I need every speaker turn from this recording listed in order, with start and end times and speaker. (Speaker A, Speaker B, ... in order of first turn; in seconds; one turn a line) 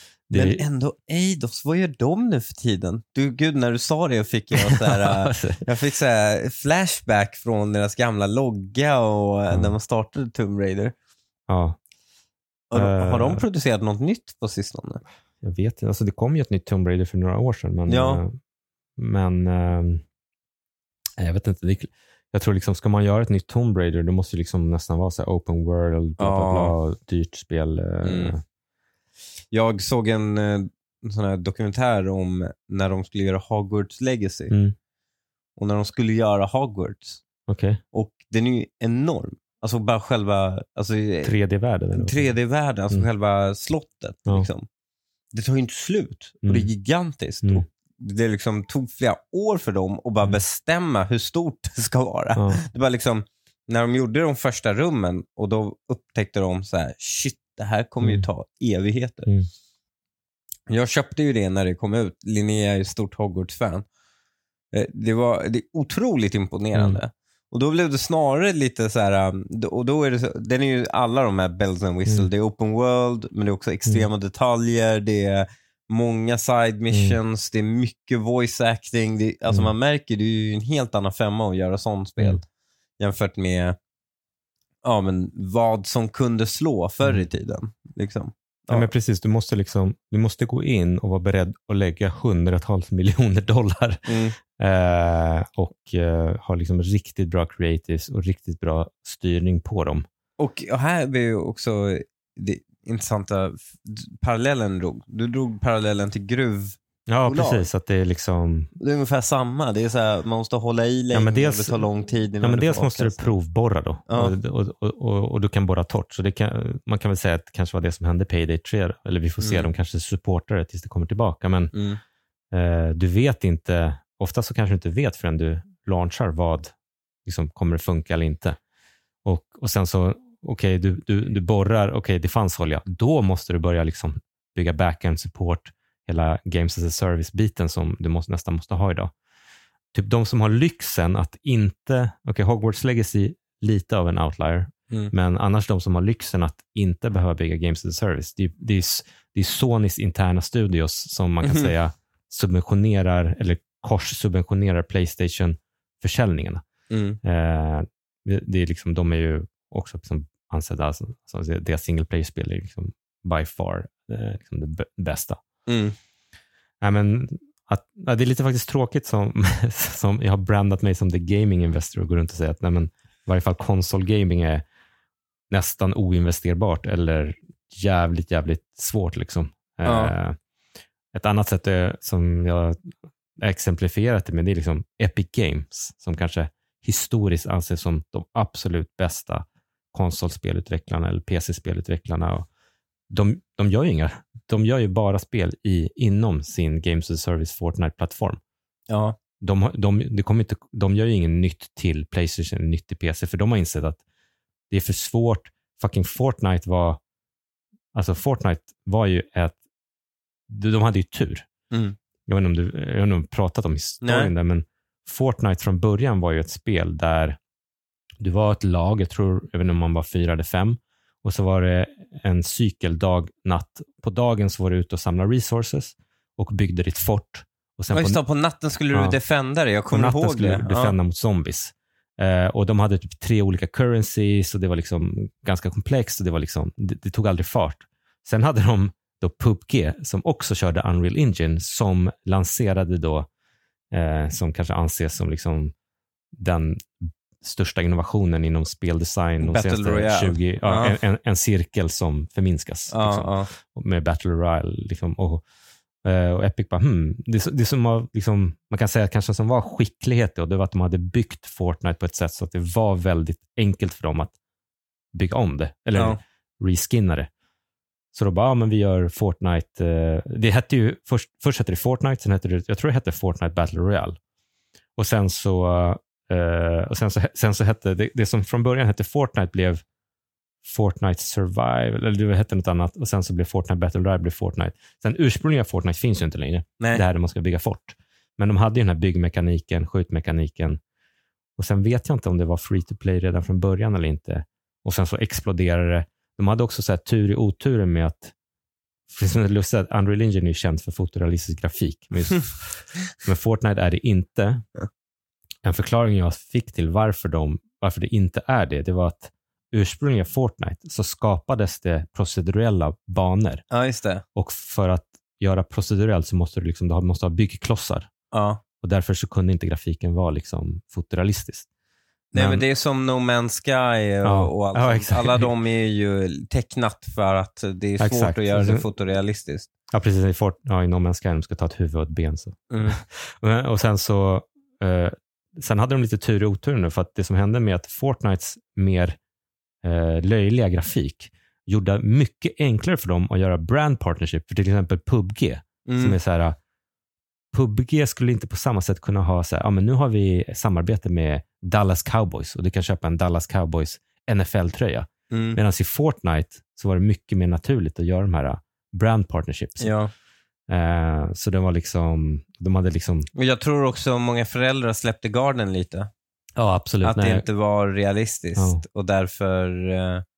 Speaker A: 0.3-0.6
Speaker B: 0.3-10.9
Speaker A: 4.6-5.6
Speaker A: 11.5-11.8
Speaker B: 12.7-15.0
Speaker A: 12.7-13.4
Speaker A: 15.4-18.4
Speaker B: 17.9-18.2
Speaker A: 19.0-20.0
Speaker A: 21.2-28.4
Speaker B: 26.2-26.7
Speaker B: 28.0-28.3
Speaker B: 29.5-34.5
Speaker A: 34.5-34.8
Speaker B: 35.6-37.2
Speaker A: 37.5-37.8
Speaker B: 37.9-41.4
Speaker A: 41.2-42.3
Speaker B: 41.9-44.7
Speaker B: 45.3-59.3
Speaker A: 46.4-46.7
Speaker A: 52.4-52.6
Speaker B: 60.7-63.9
Speaker B: 64.7-82.4
Speaker A: 66.8-67.0
Speaker A: 76.9-77.2
Speaker B: 83.0-83.8
Speaker B: 84.8-88.9
Speaker A: 88.7-100.0
Speaker B: 94.1-94.4
Speaker B: 100.4-107.6
Speaker A: 107.1-108.7
Speaker B: 108.8-113.3
Speaker A: 111.1-111.8
Speaker A: 112.4-121.7
Speaker B: 114.1-114.3
Speaker B: 119.4-119.7
Speaker B: 121.7-122.0
Speaker A: 122.5-126.7
Speaker A: 127.2-128.6
Speaker A: 129.2-139.1
Speaker A: 139.9-156.6
Speaker B: 151.4-151.7
Speaker B: 156.9-157.2
Speaker A: 157.2-165.4
Speaker B: 165.7-165.9
Speaker A: 166.8-174.6
Speaker A: 175.5-180.4
Speaker B: 179.8-180.1
Speaker A: 181.1-192.5
Speaker A: 193.1-198.4
Speaker B: 198.9-199.2
Speaker A: 199.4-204.0
Speaker A: 204.7-207.0
Speaker A: 207.9-209.6
Speaker A: 210.5-211.5
Speaker B: 211.7-211.9
Speaker A: 212.3-217.4
Speaker B: 214.0-214.3
Speaker A: 218.2-228.2
Speaker B: 227.9-230.9
Speaker A: 228.9-229.2
Speaker A: 229.9-243.3
Speaker A: 243.9-245.7
Speaker A: 246.3-255.4
Speaker B: 249.4-251.0
Speaker B: 252.9-253.5
Speaker A: 256.0-264.3
Speaker A: 265.1-267.3
Speaker A: 268.1-274.2
Speaker A: 274.9-279.8
Speaker A: 280.6-290.8
Speaker A: 291.6-298.3
Speaker A: 299.1-304.6
Speaker A: 305.6-313.6
Speaker B: 313.7-314.2
Speaker A: 314.4-318.1
Speaker B: 318.3-318.6
Speaker A: 318.8-321.7
Speaker B: 322.3-329.7
Speaker A: 322.4-322.6
Speaker A: 324.2-325.5
Speaker A: 328.0-328.9
Speaker A: 329.9-339.2
Speaker B: 332.7-333.0
Speaker A: 339.8-346.6
Speaker B: 345.9-346.2
Speaker A: 347.5-359.9
Speaker B: 355.3-355.6
Speaker B: 359.8-360.1
Speaker A: 360.7-363.3
Speaker B: 363.4-366.1
Speaker A: 366.6-367.4
Speaker B: 367.0-370.2
Speaker A: 368.6-368.8